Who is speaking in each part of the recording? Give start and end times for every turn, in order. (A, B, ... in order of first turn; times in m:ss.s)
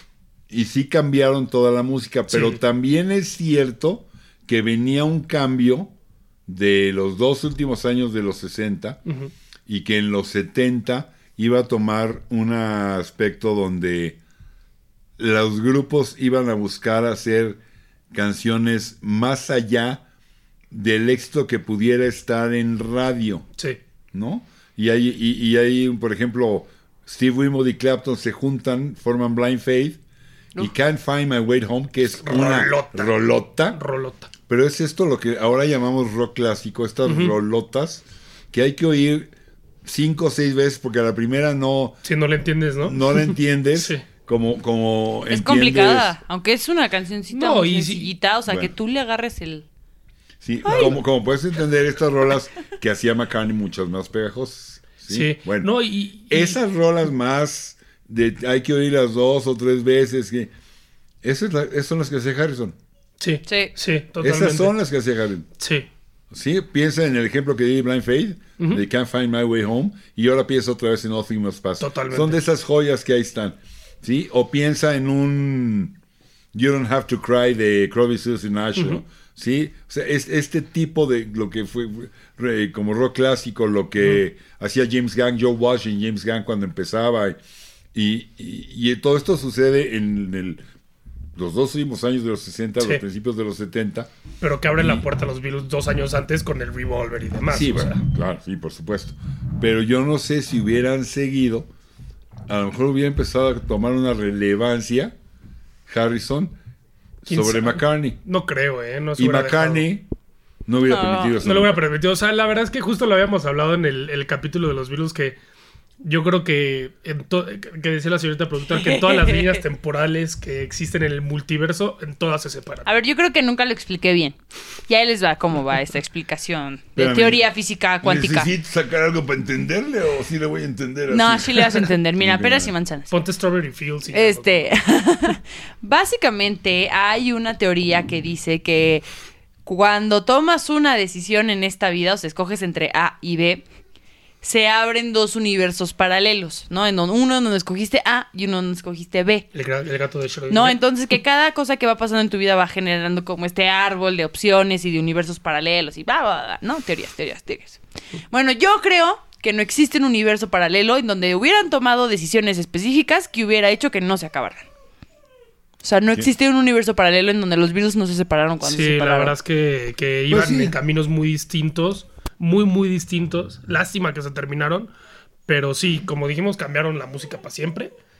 0:00.5-0:05.9 A
0:02.3-0:02.6 B
0:06.5-0:09.0 A
0:09.7-0:14.2 A
0:15.2-0:17.6 A
0:18.1-0:20.0 A
0:20.7-0:23.4 A
0:24.1-0:30.0 A
0:30.6-0:33.8 A
0:32.2-0:34.3 B
0:34.5-0:39.3 A
0:37.0-0:37.3 B
0:39.8-0:42.0 A
0:42.0-0:44.0 B
0:42.8-0:46.1 A
0:45.3-0:49.6 C
0:47.3-0:48.1 B
0:50.4-0:55.7 A
0:50.6-0:51.0 C
0:50.7-0:51.0 B
0:55.1-0:56.6 B
0:56.3-1:00.5 A
1:01.2-1:02.7 A
1:03.2-1:04.7 B
1:03.5-1:03.7 C
1:04.2-1:05.4 A
1:05.6-1:05.9 B
1:06.3-1:15.9 A
1:11.8-1:12.4 B
1:16.5-1:27.4 A
1:27.9-1:30.6 A
1:31.4-1:34.1 A
1:34.4-1:38.0 B
1:34.8-1:35.0 A
1:37.5-1:41.7 A
1:42.5-1:45.1 A
1:45.9-1:46.5 A
1:47.2-1:48.2 A
1:47.3-1:49.9 B
1:49.2-1:50.0 A
1:50.6-1:51.8 A
1:50.8-1:51.3 C
1:51.4-1:55.4 B
1:56.0-2:02.9 B
1:58.7-1:59.6 C
2:02.8-2:08.5 C
2:07.0-2:07.5 A
2:08.0-2:12.7 A
2:11.1-2:13.1 C
2:13.1-2:14.7 B
2:14.1-2:19.0 C
2:19.6-2:23.6 C
2:24.4-2:29.5 C
2:29.5-2:30.8 B
2:30.5-2:44.6 C
2:45.8-2:49.3 C
2:48.6-2:54.9 B
2:50.3-2:50.7 A
2:55.5-2:57.9 B